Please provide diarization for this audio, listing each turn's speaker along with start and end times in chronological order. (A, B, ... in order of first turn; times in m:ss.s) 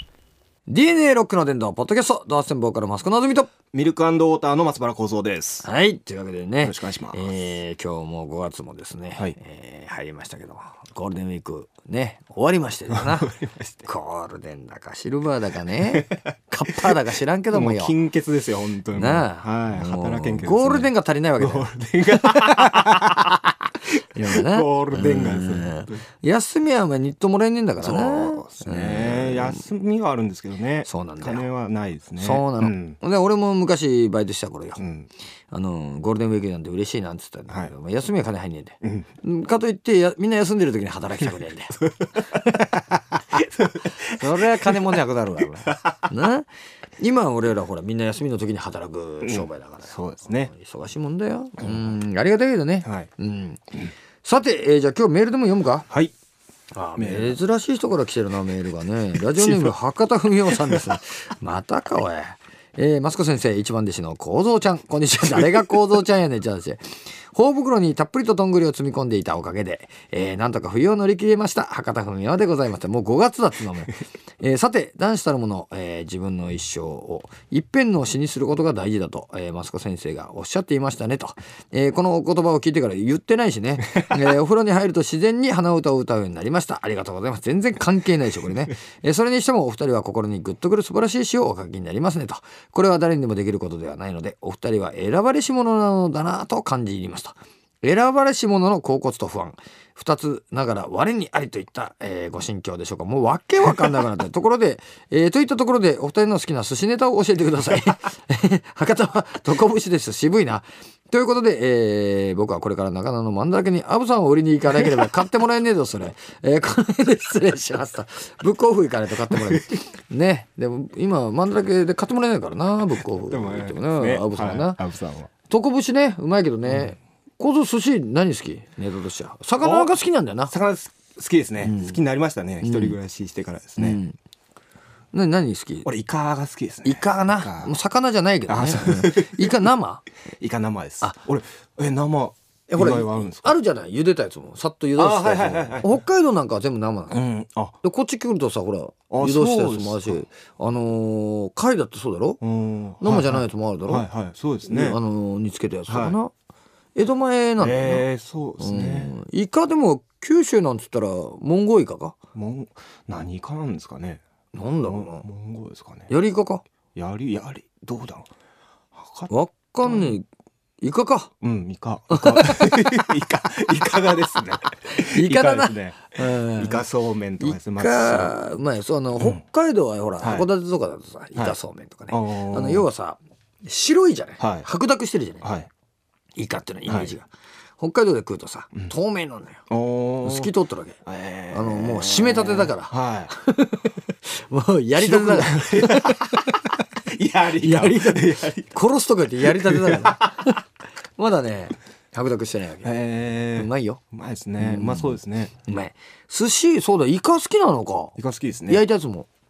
0:00.7-0:03.5 A
0:03.7-0:05.7 B
0:05.6-0:13.3 A
0:06.6-0:07.3 B
0:12.9-0:13.9 B
0:13.8-0:18.0 A
0:15.8-0:26.0 B
0:18.9-0:23.1 A
0:24.1-0:29.6 A
0:27.8-0:33.0 B
0:30.9-0:31.5 A
0:32.2-0:34.8 A
0:34.8-0:35.1 B
0:35.5-0:42.5 A
0:38.8-0:39.1 B
0:43.3-0:45.0 B
0:43.8-0:55.9 A
0:45.7-0:46.0 B
0:49.2-0:50.5 B
0:56.7-2:04.8 A
0:57.0-0:57.4 B
0:59.4-0:59.8 B
1:00.5-1:00.9 B
1:59.3-1:59.6 B
2:03.2-2:05.3 B
2:05.4-2:10.5 A
2:06.7-2:06.9 B
2:09.6-2:14.0 B
2:11.6-2:12.0 A
2:12.6-2:13.0 A
2:13.8-2:14.2 A
2:15.1-2:15.9 A
2:15.8-2:17.8 B
2:16.8-2:20.0 A
2:18.5-2:19.7 B
2:20.4-2:23.6 B
2:22.7-2:27.2 A
2:25.0-2:26.0 B
2:27.1-2:27.8 B
2:27.8-2:32.4 A
2:29.1-2:30.2 B
2:32.4-2:35.0 B
2:33.0-2:34.1 A
2:34.7-2:36.3 A
2:35.9-2:36.2 B
2:37.0-2:38.1 A
2:37.6-2:39.1 B
2:38.6-2:42.2 A
2:42.4-2:44.2 B
2:44.5-2:45.3 A
2:44.8-2:46.1 B
2:46.1-2:46.6 A
2:47.0-2:48.3 B
2:48.9-2:49.3 B
2:49.3-2:50.3 A
2:49.8-2:50.2 B
2:50.8-2:51.3 A
2:51.4-2:58.4 B
2:52.1-2:53.2 A
2:54.9-2:56.8 A
2:57.4-3:05.5 A
3:00.2-3:00.5 B
3:02.1-3:02.9 B
3:04.4-3:04.7 B
3:05.4-3:05.7 B
3:06.4-3:09.6 A
3:06.9-3:07.1 B
3:09.7-3:10.6 B
3:10.2-3:16.7 A
3:11.1-3:13.3 B
3:15.0-3:18.8 B
3:17.6-3:20.6 A
3:19.4-3:20.5 B
3:21.2-3:23.0 A
3:22.8-3:25.5 B
3:23.5-3:24.0 A
3:24.6-3:29.3 A
3:28.2-3:28.9 B